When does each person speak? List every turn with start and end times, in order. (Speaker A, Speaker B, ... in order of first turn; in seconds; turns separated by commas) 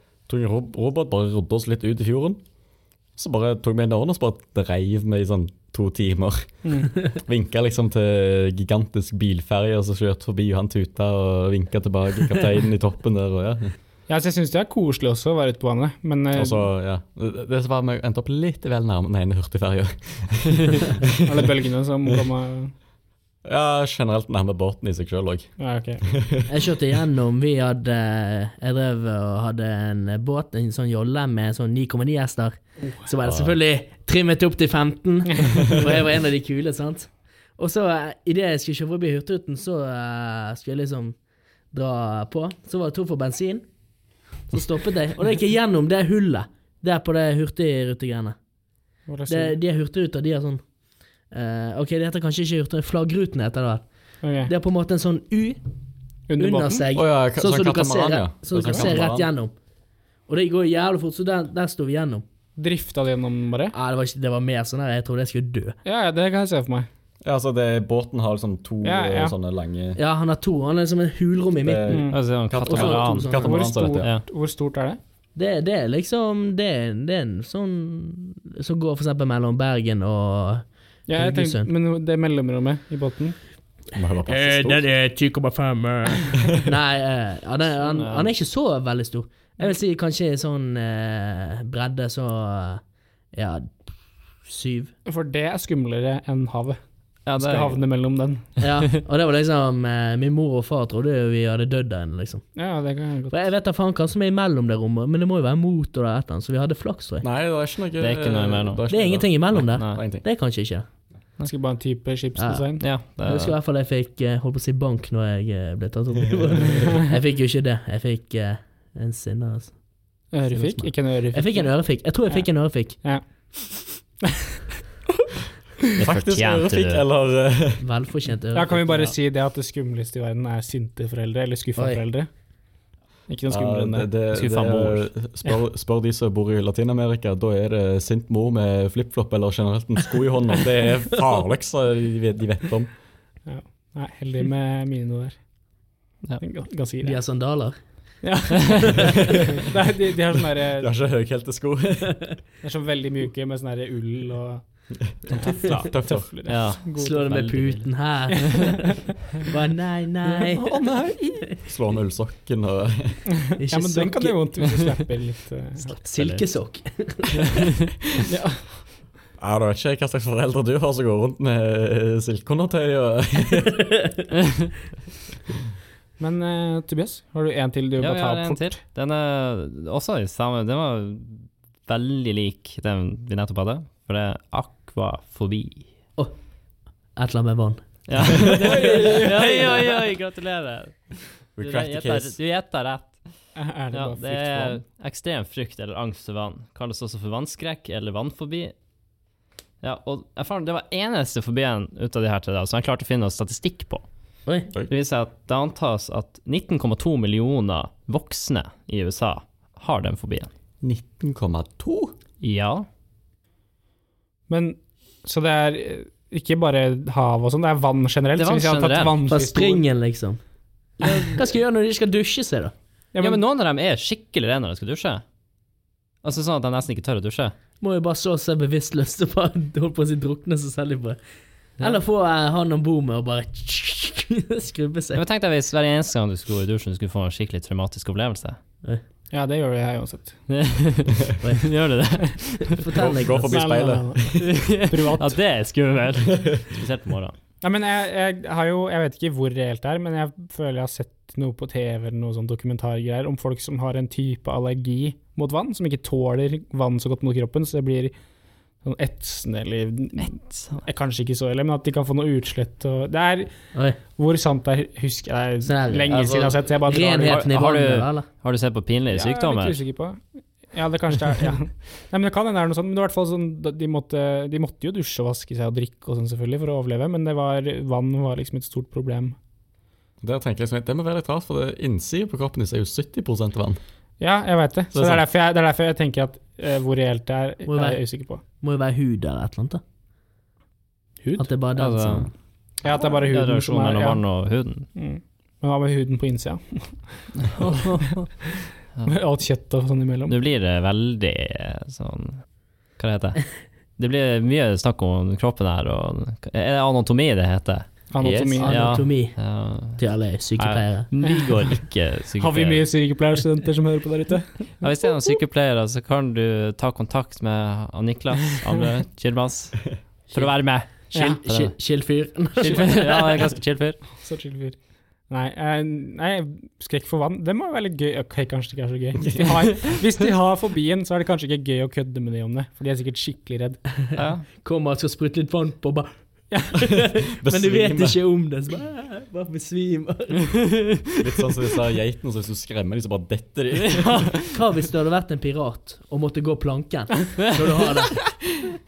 Speaker A: 0.3-2.4, Speaker A: 3.2-6.5, Speaker B: 6.6-6.9, Speaker A: 7.0-13.7, Speaker B: 14.1-16.7, Speaker A: 16.4-21.2, Speaker B: 21.2-22.7, Speaker A: 23.4-25.5, Speaker B: 25.6-26.0, Speaker A: 26.0-26.6, Speaker C: 26.5-41.2, Speaker A: 33.2-33.6, Speaker C: 41.7-43.7, Speaker C: 44.5-48.4, Speaker B: 49.1-49.6, Speaker C: 49.3-50.6, Speaker C: 51.3-53.9, Speaker B: 54.2-54.5, Speaker C: 54.5-55.6, Speaker B: 56.3-56.9, Speaker C: 56.4-59.5, Speaker A: 56.9-59.3, Speaker C: 60.3-62.2, Speaker B: 62.6-63.7, Speaker C: 63.7-65.8, Speaker B: 65.8-66.9, Speaker A: 67.2-70.0, Speaker B: 68.8-69.3, Speaker C: 70.0-72.1, Speaker A: 71.6-74.1, Speaker B: 71.9-72.2, Speaker D: 72.1-73.4, Speaker C: 72.7-73.5, Speaker B: 73.4-75.0, Speaker C: 75.3-81.7, Speaker B: 81.1-83.4, Speaker A: 83.9-84.8, Speaker C: 84.3-92.8, Speaker D: 87.8-88.3, Speaker C: 93.3-93.8, Speaker C: 94.5-94.9, Speaker B: 95.1-96.8, Speaker D: 97.3-97.8, Speaker B: 97.4-98.5, Speaker C: 98.6-102.5, Speaker B: 102.6-103.4, Speaker C: 103.3-107.3, Speaker A: 107.2-110.2, Speaker D: 108.0-108.8, Speaker C: 108.9-110.9, Speaker D: 109.7-110.0, Speaker B: 111.4-112.8, Speaker C: 112.4-112.7, Speaker D: 112.8-113.6, Speaker C: 113.2-119.8, Speaker B: 120.3-121.7, Speaker C: 120.5-123.0, Speaker B: 122.3-123.2, Speaker D: 126.0-127.0, Speaker A: 126.0-127.8, Speaker C: 127.8-129.1, Speaker B: 128.5-132.3, Speaker C: 131.8-132.0, Speaker B: 133.3-134.1, Speaker A: 133.5-142.9, Speaker D: 134.3-135.1, Speaker B: 143.5-145.4, Speaker B: 146.4-147.2, Speaker C: 147.0-147.8, Speaker B: 148.2-150.9, Speaker A: 150.8-152.3, Speaker B: 152.6-157.2, Speaker A: 155.6-156.3, Speaker D: 156.5-158.5, Speaker C: 157.0-160.8, Speaker B: 158.4-158.7, Speaker B: 160.3-161.5, Speaker A: 161.7-163.2, Speaker B: 163.3-166.0, Speaker C: 163.6-164.4, Speaker C: 166.0-167.7, Speaker D: 166.1-166.4, Speaker B: 168.2-168.7, Speaker A: 169.4-173.8, Speaker B: 176.2-178.8, Speaker D: 178.0-185.9, Speaker C: 187.2-189.6, Speaker D: 188.1-193.2, Speaker B: 188.9-189.3, Speaker A: 191.6-192.4, Speaker B: 193.6-194.8, Speaker D: 193.9-198.7, Speaker D: 199.8-204.1, Speaker D: 204.9-210.5, Speaker A: 210.8-212.2, Speaker D: 212.4-212.9, Speaker B: 214.5-219.8, Speaker D: 218.4-219.2, Speaker C: 219.3-220.4, Speaker C: 221.0-222.7, Speaker B: 223.1-223.4, Speaker D: 223.2-225.2, Speaker D: 226.2-227.5, Speaker C: 227.8-231.2, Speaker C: 231.8-235.2, Speaker D: 235.2-238.6, Speaker B: 239.3-240.3, Speaker D: 240.5-242.8, Speaker C: 241.4-241.7, Speaker C: 242.7-243.8, Speaker A: 242.9-244.5, Speaker B: 243.5-245.4, Speaker D: 244.3-247.3, Speaker B: 247.6-258.1, Speaker B: 258.8-263.6, Speaker D: 260.2-260.8, Speaker B: 264.1-267.5, Speaker C: 265.6-268.3, Speaker D: 267.2-269.8, Speaker B: 269.1-270.2, Speaker B: 270.7-279.4, Speaker A: 280.2-283.8, Speaker B: 284.2-288.4, Speaker A: 284.9-285.2, Speaker C: 287.7-288.0, Speaker C: 288.6-289.8, Speaker C: 291.4-292.3, Speaker D: 291.8-292.3, Speaker B: 292.8-294.2, Speaker D: 293.3-294.9, Speaker B: 294.9-297.7, Speaker D: 297.6-298.3, Speaker B: 299.1-300.4, Speaker D: 300.3-302.4, Speaker D: 303.0-303.5, Speaker D: 304.0-307.9, Speaker B: 308.1-308.8, Speaker A: 308.2-308.6, Speaker C: 308.6-309.4, Speaker D: 308.6-310.0, Speaker C: 310.0-311.1, Speaker D: 310.6-312.8, Speaker B: 311.3-311.5, Speaker B: 312.4-314.6, Speaker D: 314.8-321.7, Speaker C: 320.3-323.5, Speaker B: 321.1-321.4, Speaker D: 322.6-324.0, Speaker B: 324.1-324.8, Speaker B: 325.3-333.8, Speaker C: 334.1-336.1, Speaker D: 334.2-334.5, Speaker B: 336.5-336.8, Speaker C: 336.7-340.8, Speaker A: 337.4-338.2, Speaker A: 341.2-344.3, Speaker D: 343.8-344.5, Speaker C: 344.5-348.2, Speaker D: 347.6-348.4